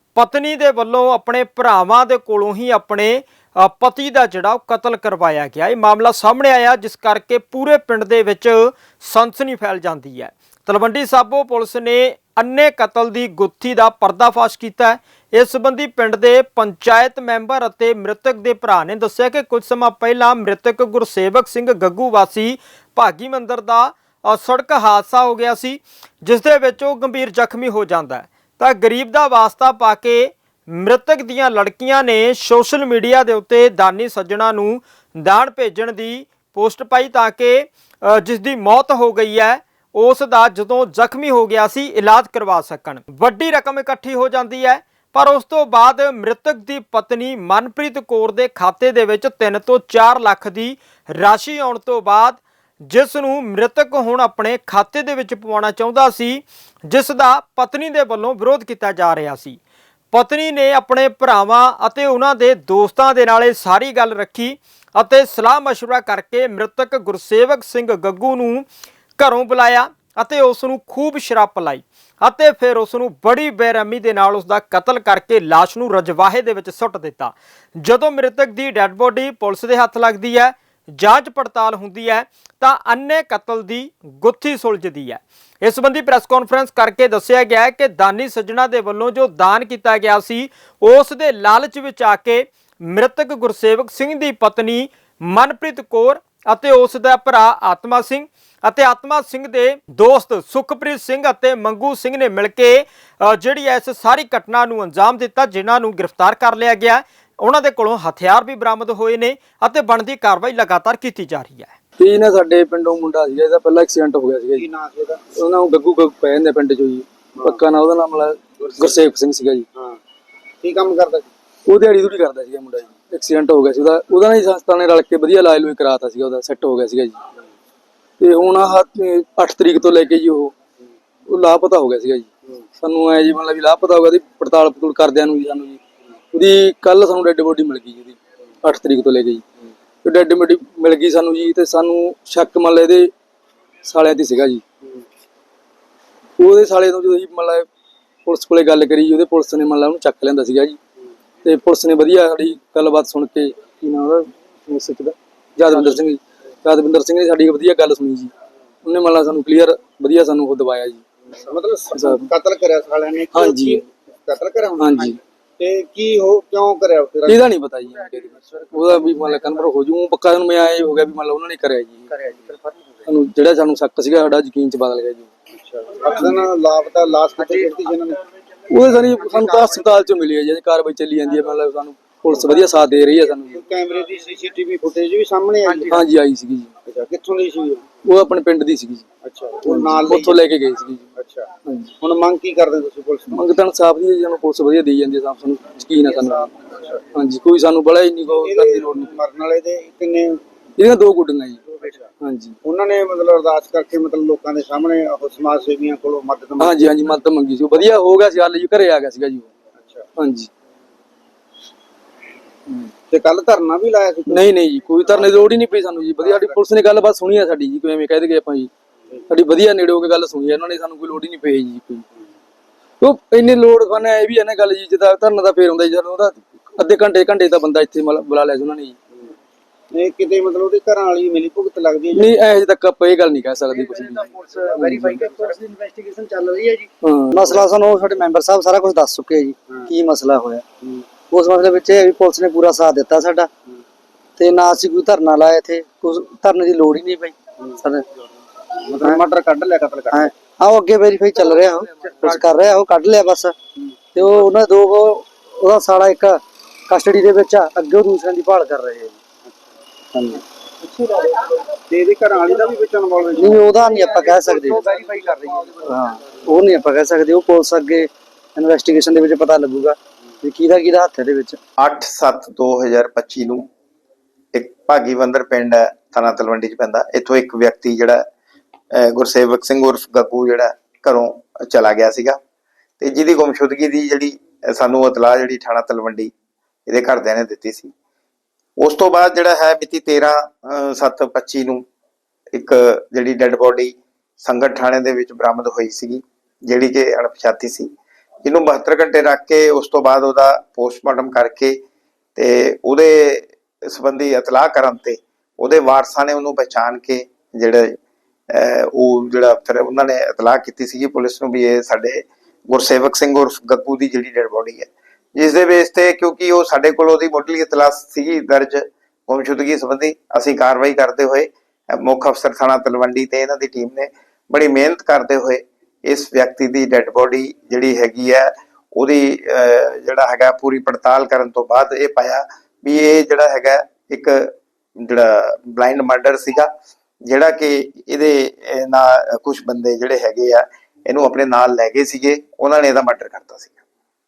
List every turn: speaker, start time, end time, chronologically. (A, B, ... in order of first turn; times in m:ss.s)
0:00.1-0:59.6 A
1:00.1-1:08.6 A
1:09.2-1:51.7 A
1:52.0-1:54.7 B
1:54.6-1:55.2 C
1:55.3-1:59.6 B
2:00.6-2:01.3 C
2:01.7-2:07.2 B
2:08.2-2:10.5 B
2:11.3-2:12.3 B
2:12.8-2:15.8 B
2:16.3-2:19.4 B
2:20.0-2:23.1 B
2:23.8-2:24.6 B
2:26.4-2:27.6 B
2:28.2-2:30.8 B
2:31.4-2:38.3 B
2:38.8-2:41.0 B
2:41.3-2:47.5 C
2:41.9-2:42.3 B
2:43.3-2:43.8 B
2:44.8-2:45.2 B
2:47.2-2:52.1 B
2:53.0-2:55.3 B
2:55.5-2:58.2 C
2:58.7-3:03.6 B
3:02.8-3:06.0 C
3:05.9-3:06.7 B
3:06.9-3:07.8 C
3:08.0-3:09.0 B
3:09.2-3:10.4 C
3:09.6-3:11.1 B
3:11.2-3:11.5 C
3:11.6-3:11.9 B
3:12.0-3:13.4 C
3:13.3-3:16.5 B
3:16.0-3:17.0 C
3:17.1-3:19.1 B
3:18.3-3:20.4 C
3:20.8-3:21.6 B
3:21.7-3:22.1 C
3:22.2-3:22.6 B
3:22.6-3:26.9 C
3:26.6-3:29.5 B
3:29.8-3:30.0 C
3:30.2-3:30.5 B
3:33.1-3:34.5 C
3:34.3-3:38.7 B
3:36.2-3:36.6 C
3:39.3-3:42.1 B
3:43.0-3:49.0 B
3:49.9-3:52.3 C
3:52.1-3:55.1 B
3:54.4-3:56.9 D
3:55.0-3:55.4 C
3:57.0-3:57.5 B
3:57.4-4:00.6 D
4:01.3-4:03.5 D
4:04.4-4:08.0 D
4:08.7-4:10.3 C
4:10.1-4:13.5 D
4:11.4-4:12.4 C
4:14.1-4:16.4 D
4:16.9-4:19.1 D
4:19.4-4:19.7 C
4:20.2-4:25.8 C
4:23.4-4:24.8 D
4:25.3-4:31.6 D
4:31.8-4:33.6 E
4:34.5-4:38.2 E
4:38.9-4:42.4 E
4:43.0-4:46.3 E
4:46.9-4:47.9 E
4:48.8-4:51.8 E
4:52.5-4:57.9 E
4:58.4-5:01.8 E
5:02.4-5:08.0 E
5:08.5-5:36.7 E
5:37.2-5:43.8 E